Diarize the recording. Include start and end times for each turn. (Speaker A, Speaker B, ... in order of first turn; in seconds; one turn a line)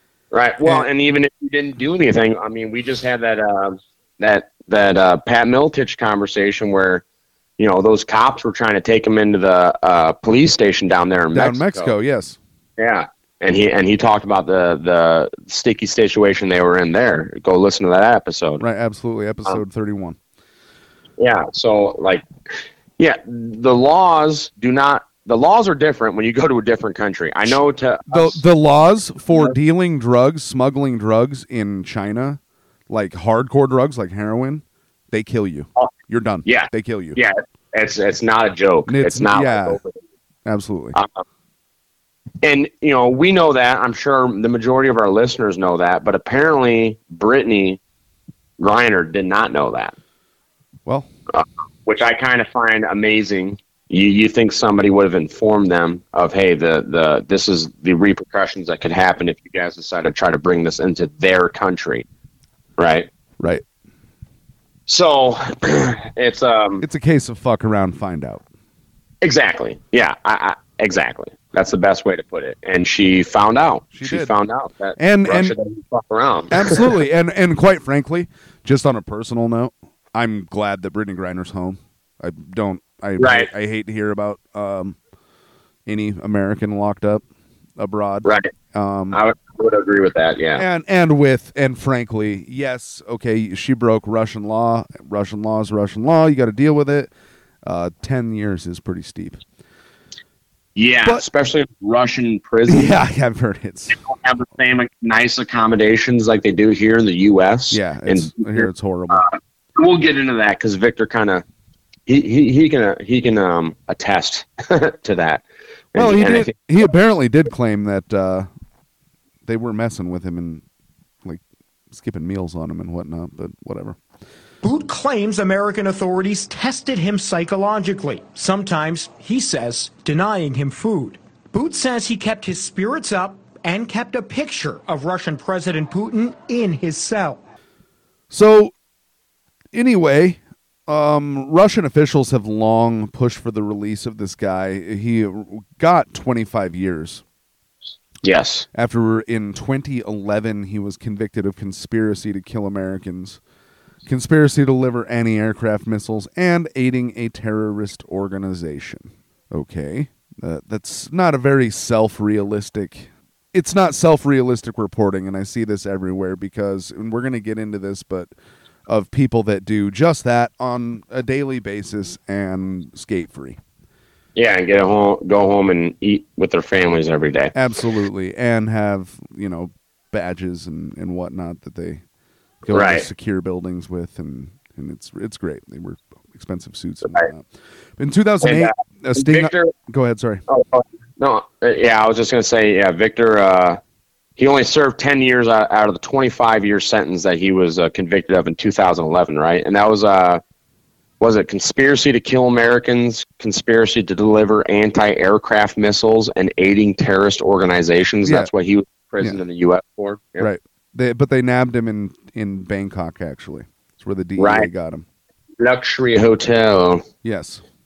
Speaker A: 0.3-7.0
Speaker A: 7.6-11.9
Speaker B: 11.3-12.4
Speaker A: 12.8-18.6
Speaker B: 18.6-20.2
Speaker A: 21.2-22.2
Speaker A: 23.0-28.4
Speaker B: 28.1-37.2
Speaker A: 36.5-40.0
Speaker B: 38.9-39.8
Speaker B: 40.5-41.0
Speaker A: 41.0-41.2
Speaker A: 42.4-47.8
Speaker A: 48.6-49.9
Speaker A: 51.3-62.0
Speaker A: 62.8-63.1
Speaker A: 64.9-66.8
Speaker B: 66.8-68.5
Speaker A: 69.2-76.9
Speaker B: 73.9-74.3
Speaker B: 75.0-75.5
Speaker B: 76.5-85.0
Speaker A: 83.2-83.5
Speaker B: 85.9-87.2
Speaker B: 87.8-89.2
Speaker A: 88.2-88.5
Speaker A: 89.1-90.6
Speaker B: 90.6-97.1
Speaker B: 97.6-99.4
Speaker A: 100.8-103.0
Speaker B: 102.7-104.0
Speaker A: 104.1-111.4
Speaker B: 107.7-109.2
Speaker A: 112.1-115.4
Speaker A: 115.9-116.5
Speaker B: 116.0-118.5
Speaker B: 119.5-120.6
Speaker B: 121.2-124.0
Speaker C: 124.6-137.4
Speaker B: 138.3-138.7
Speaker B: 139.7-147.2
Speaker A: 148.2-148.7
Speaker B: 148.7-153.4
Speaker B: 154.1-168.3
Speaker B: 168.9-173.6
Speaker A: 174.4-177.5
Speaker B: 177.6-182.0
Speaker B: 182.6-190.4
Speaker A: 182.7-183.1
Speaker A: 188.4-189.7
Speaker A: 190.5-193.8
Speaker A: 194.4-200.4
Speaker A: 201.2-210.5
Speaker B: 208.2-208.5
Speaker B: 210.4-215.1
Speaker A: 214.4-214.7
Speaker A: 215.6-217.0
Speaker B: 217.2-217.6